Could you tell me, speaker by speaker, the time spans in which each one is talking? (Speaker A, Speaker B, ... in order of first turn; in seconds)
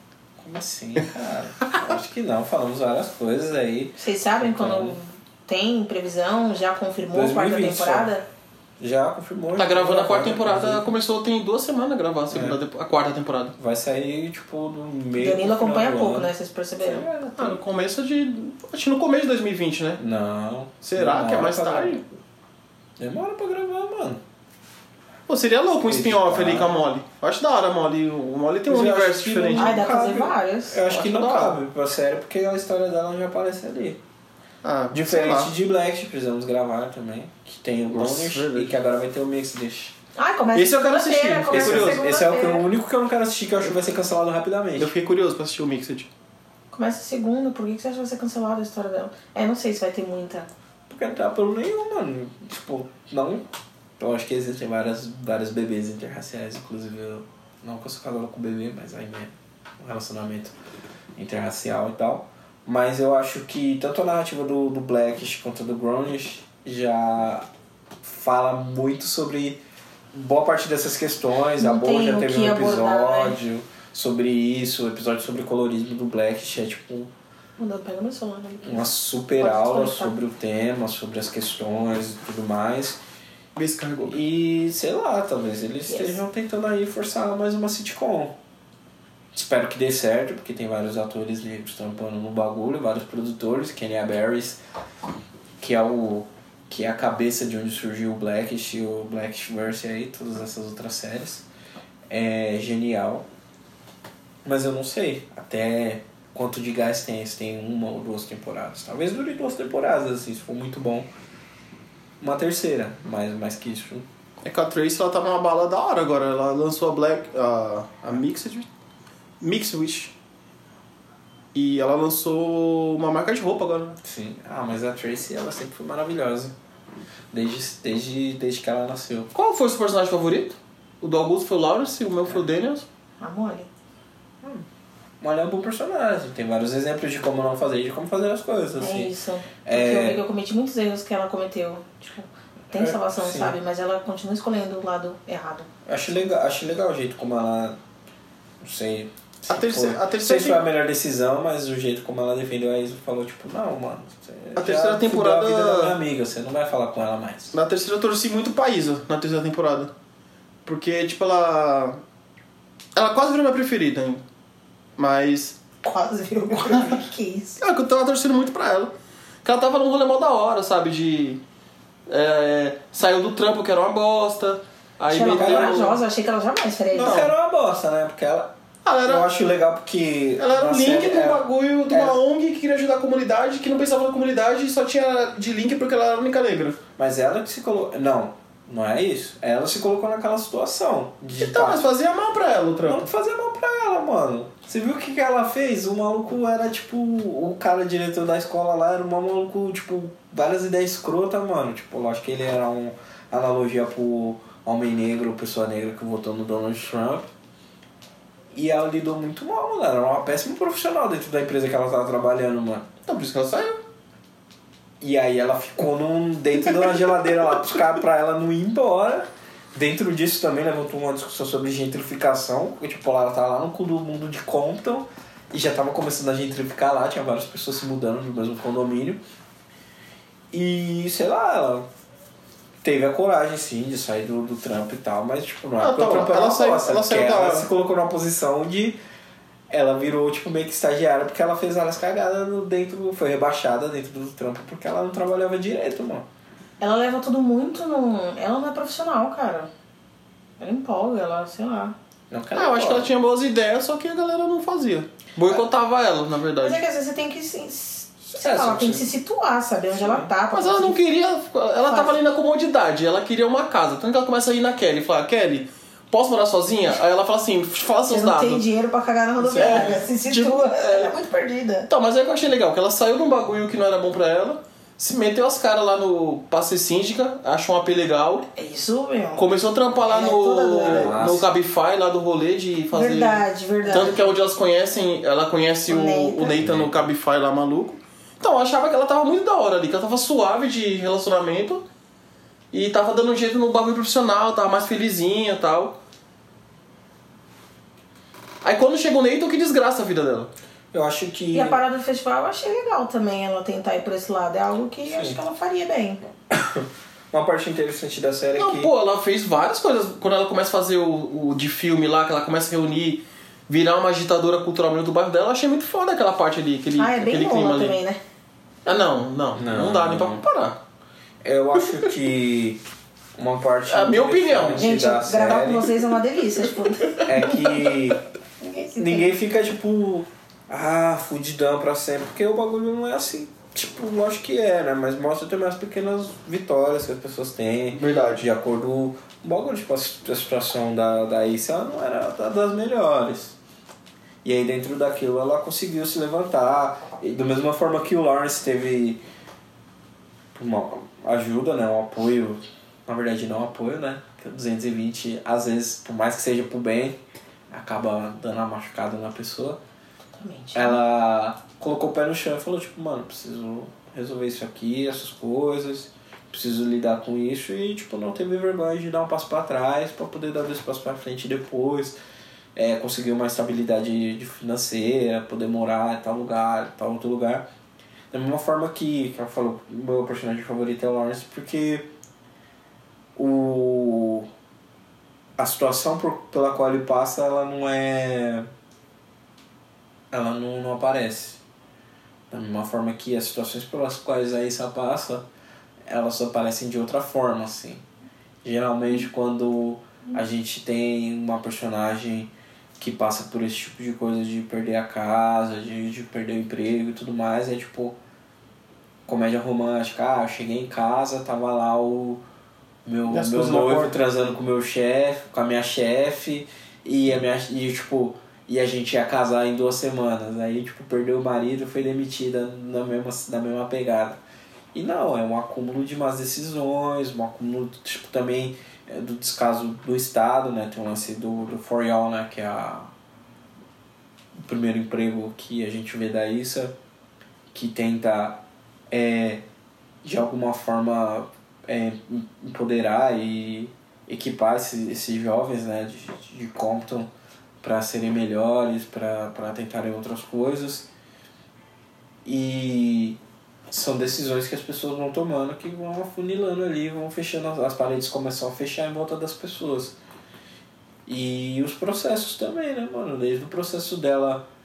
Speaker A: 0.4-5.0, 7.1-8.1, 8.8-10.9, 12.3-12.6, 13.6-17.6, 20.0-22.0, 23.0-24.2, 25.9-26.8, 28.7-34.0, 34.9-39.9, 41.5-44.9, 50.9-53.4, 54.0-60.5, 61.1-67.5, 68.0-69.6, 70.1-77.1, 78.6-83.0, 84.0-88.4, 89.3-94.6, 95.6-101.5, 102.1-103.2, 104.4-111.1, 112.2-114.1, 124.0-126.5, 127.3-129.3, 135.2-140.2, 142.7-143.6, 145.8-147.8, 148.6-157.6, 175.2-175.8, 176.9-178.5, 179.0-182.2, 187.0-191.8, 192.8-207.3, 208.5-212.9, 215.0-229.2, 230.5-231.9, 232.8-239.0, 239.7-246.2, 252.3-253.1, 258.3-259.1, 259.9-260.3, 280.8-281.5, 286.6-287.1, 300.9-301.8, 305.1-305.4, 306.5-308.9, 319.5-320.4, 321.4-322.8, 323.4-325.9, 327.2-328.2, 328.9-343.6, 344.4-349.2, 350.5-357.2, 357.7-359.8, 360.7-372.2, 372.7-377.6, 378.3-382.1, 383.4-384.5, 385.6-388.7, 390.3-391.6, 392.5-395.4, 396.1-398.0, 398.6-408.2, 409.2-412.4, 413.0-424.4, 424.9-433.1, 434.6-436.9, 437.7-439.6, 440.2-447.3, 447.8-451.1, 452.4-453.4, 453.9-460.1, 461.2-464.6
Speaker B: 4.0-8.2, 15.2-17.1, 29.6-30.8, 40.1-42.6, 46.7-50.5, 71.6-73.4, 77.6-80.1, 85.9-86.2, 133.2-133.7, 138.8-145.7, 165.8-167.6, 175.1-177.3, 246.8-249.7, 250.6-251.9, 256.6-261.0, 261.9-262.2, 268.1-271.9, 278.5-281.1, 282.9-284.2, 285.9-286.6, 301.5-306.2, 317.0-318.2, 324.8-327.6, 328.6-329.3, 360.4-361.0
Speaker C: 9.6-13.5, 17.4-20.0, 20.8-22.0, 25.3-29.7, 30.9-31.6, 34.6-35.5, 37.9-38.7, 40.5-42.0, 44.8-46.1, 83.5-84.2, 114.4-118.7, 119.4-120.1, 121.5-124.0, 129.3-132.8, 149.5-150.6, 154.6-156.0, 157.5-159.9, 160.7-162.0, 162.9-164.2, 165.0-165.6, 166.7-167.0, 167.6-168.9, 169.4-171.4, 172.1-176.0, 176.9-177.3, 178.8-179.3, 180.4-186.8, 191.4-193.1, 213.1-213.8, 235.8-237.7, 252.5-256.8, 260.5-268.6, 269.4-271.1, 271.9-278.4, 279.4-291.8, 292.7-295.9, 298.6-300.5, 308.6-318.0, 318.9-320.8, 323.9-324.9, 337.9-338.4, 413.3-414.2